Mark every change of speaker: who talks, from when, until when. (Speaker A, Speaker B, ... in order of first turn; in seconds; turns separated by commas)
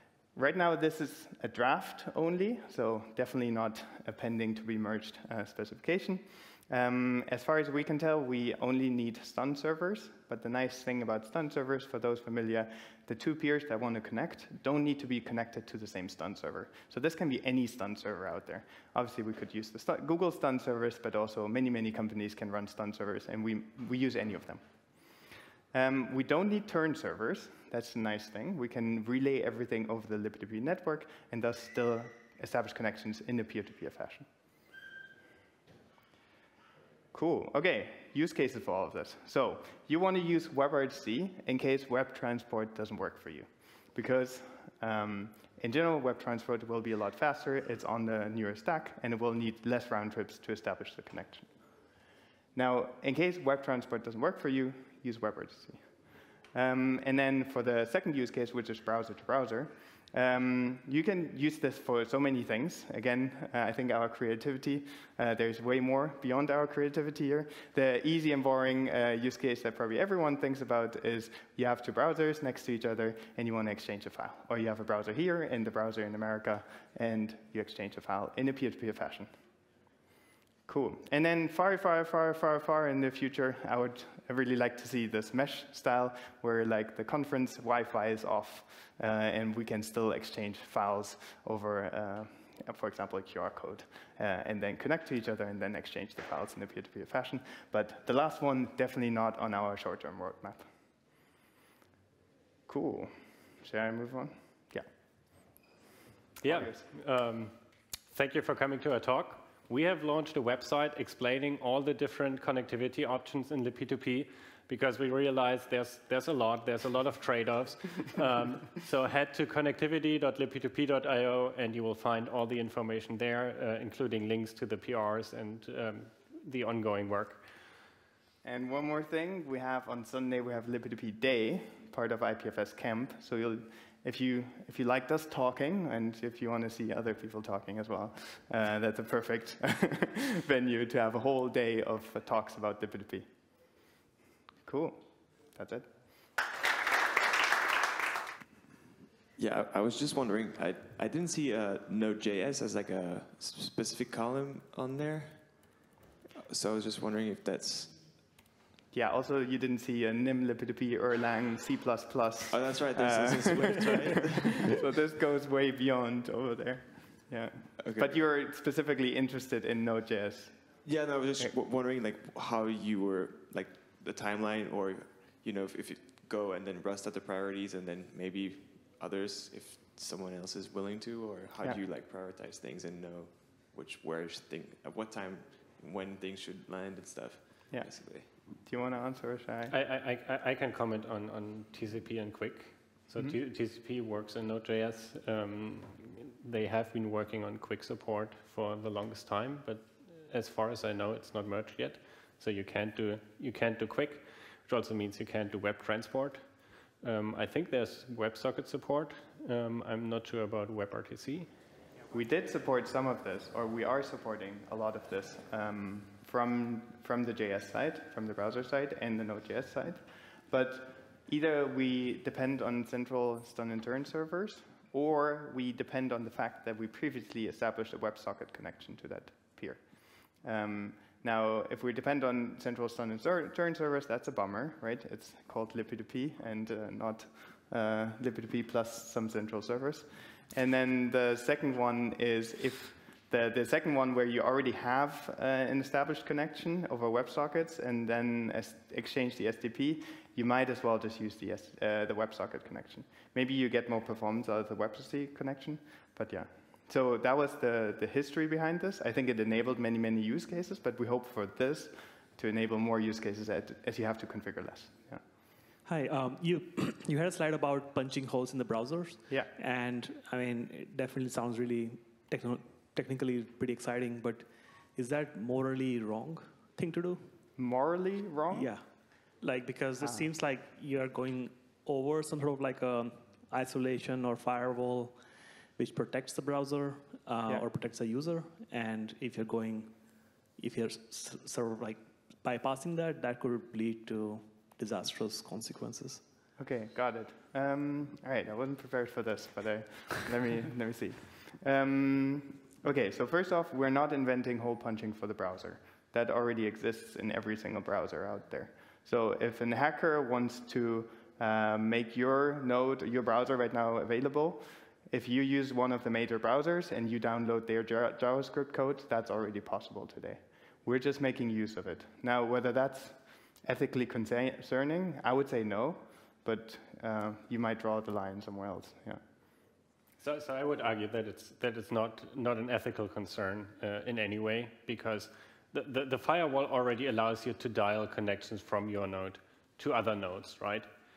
Speaker A: 0.3-34.3, Speaker A: 37.1-51.5, Speaker A: 52.5-79.3, Speaker A: 80.7-100.7, Speaker A: 102.7-104.8, Speaker B: 106.4-107.5, Speaker A: 106.4-106.8, Speaker B: 108.1-127.4, Speaker A: 128.4-143.3, Speaker A: 144.6-145.9, Speaker C: 149.3-155.8, Speaker C: 156.5-158.2, Speaker A: 158.9-170.8, Speaker C: 162.5-164.8, Speaker C: 167.8-168.2, Speaker C: 170.8-188.3, Speaker A: 187.7-189.7, Speaker B: 189.7-211.5, Speaker A: 212.1-265.2, Speaker D: 265.8-277.3, Speaker A: 277.6-278.7, Speaker D: 278.5-285.2, Speaker A: 280.0-280.3, Speaker D: 285.8-296.2, Speaker A: 296.6-329.2, Speaker B: 330.2-340.9